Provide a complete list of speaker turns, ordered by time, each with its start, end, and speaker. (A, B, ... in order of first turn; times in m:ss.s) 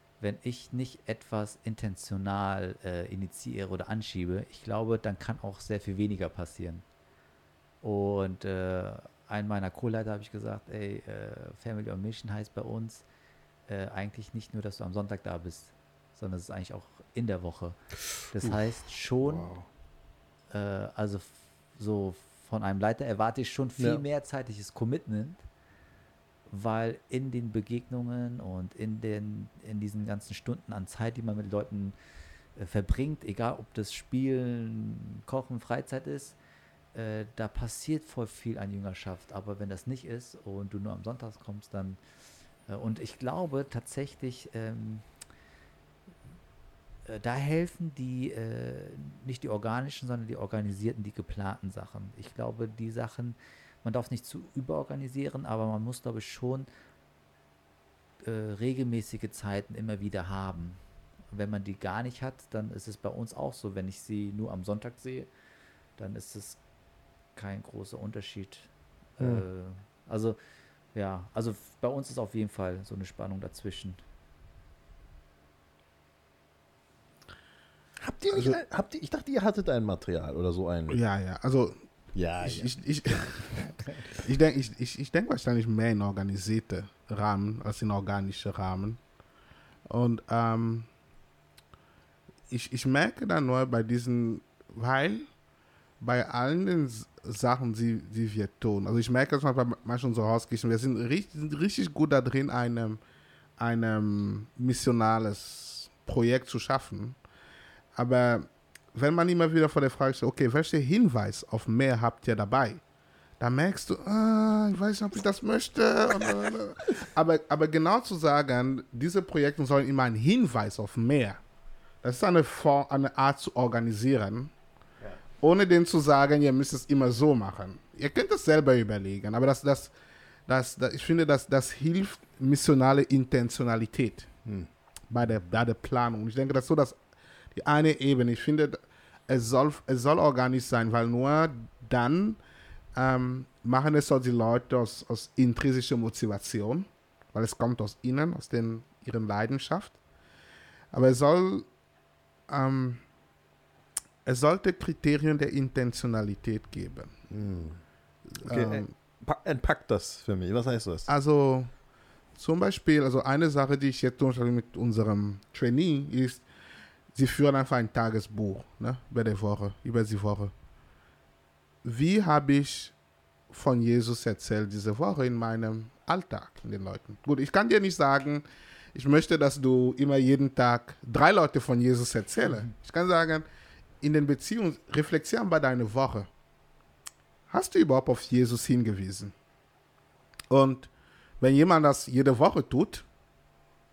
0:00.2-0:06.8 A
0:07.8-0:13.0 A
0:13.7-0:19.5 A
0:19.2-0:19.7 B
0:20.5-0:25.4 A
0:23.8-0:24.0 B
0:26.5-0:32.0 A
0:32.6-0:36.4 A
0:36.9-0:42.0 A
0:42.7-0:45.0 A
0:47.1-0:56.7 A
0:58.2-1:00.8 A
1:01.3-1:05.3 A
1:06.0-1:06.6 A
1:07.4-1:10.4 A
1:09.2-1:09.4 B
1:10.9-1:14.0 A
1:18.0-1:21.0 B
1:20.9-1:21.8 C
1:22.2-1:23.8 B
1:22.4-1:23.7 C
1:24.2-1:29.0 C
1:29.9-1:30.9 C
1:32.5-1:35.3 C
1:36.0-1:43.0 C
1:43.6-1:47.2 C
1:48.0-1:52.8 C
1:53.4-2:01.4 C
2:02.0-2:04.5 C
2:05.4-2:09.9 C
2:10.5-2:14.3 C
2:15.1-2:17.0 C
2:17.5-2:22.4 C
2:23.0-2:30.0 C
2:30.9-2:31.7 C
2:32.5-2:33.0 C
2:34.2-2:37.1 C
2:37.3-2:37.8 B
2:38.3-2:38.9 C
2:38.4-2:41.1 B
2:41.1-2:41.7 C
2:42.4-2:46.4 C
2:47.1-2:50.5 C
2:51.8-2:52.9 C
2:53.5-3:03.4 C
3:04.0-3:06.3 C
3:07.5-3:09.3 C
3:10.5-3:13.0 C